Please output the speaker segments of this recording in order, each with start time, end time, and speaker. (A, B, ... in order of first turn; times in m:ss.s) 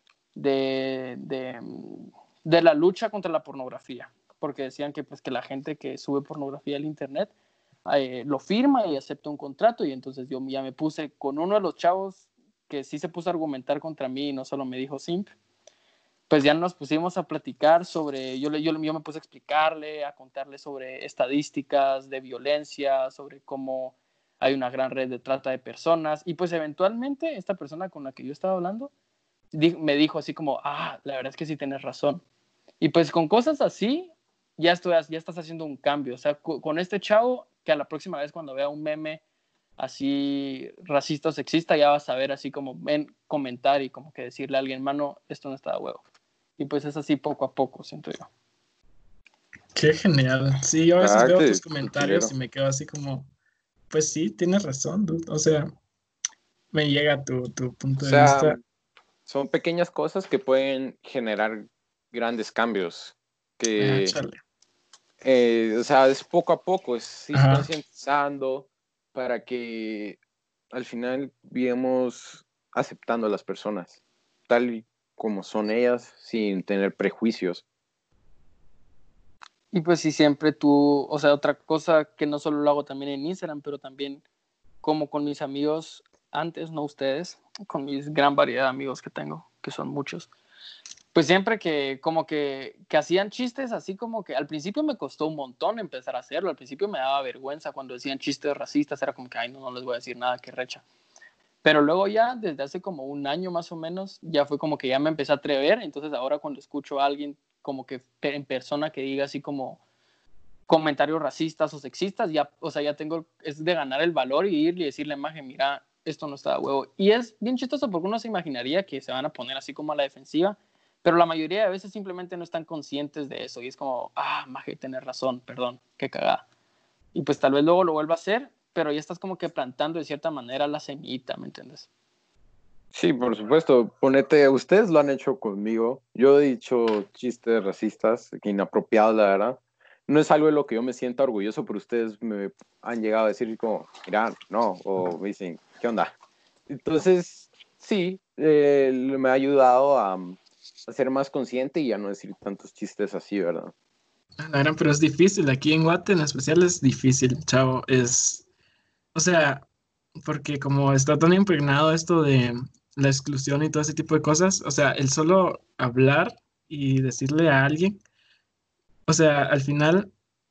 0:00.3-0:07.3 A
0:07.8-0:15.3 A
0:16.3-0:28.9 A
0:29.5-0:32.2 A
0:32.8-0:39.2 A
0:39.8-0:46.0 A
0:46.6-0:48.3 A
0:49.7-0:53.3 B
0:51.0-0:52.3 C
0:53.9-0:55.7 B
0:56.7-0:58.6 B
0:58.0-0:58.6 C
0:59.3-1:04.1 C
1:03.8-1:04.4 B
1:05.2-1:10.2 C
1:07.3-1:07.7 B
1:10.7-1:14.0 C
1:14.5-1:17.6 C
1:19.7-1:24.2 A
1:24.8-1:30.3 A
1:31.1-1:40.8 A
1:41.6-1:49.8 A
1:50.7-2:06.4 A
2:07.1-2:11.9 A
2:12.9-2:26.1 C
2:26.7-2:33.7 C
2:34.4-2:38.4 B
2:39.1-2:39.6 B
2:40.2-2:48.0 B
2:49.1-2:50.1 B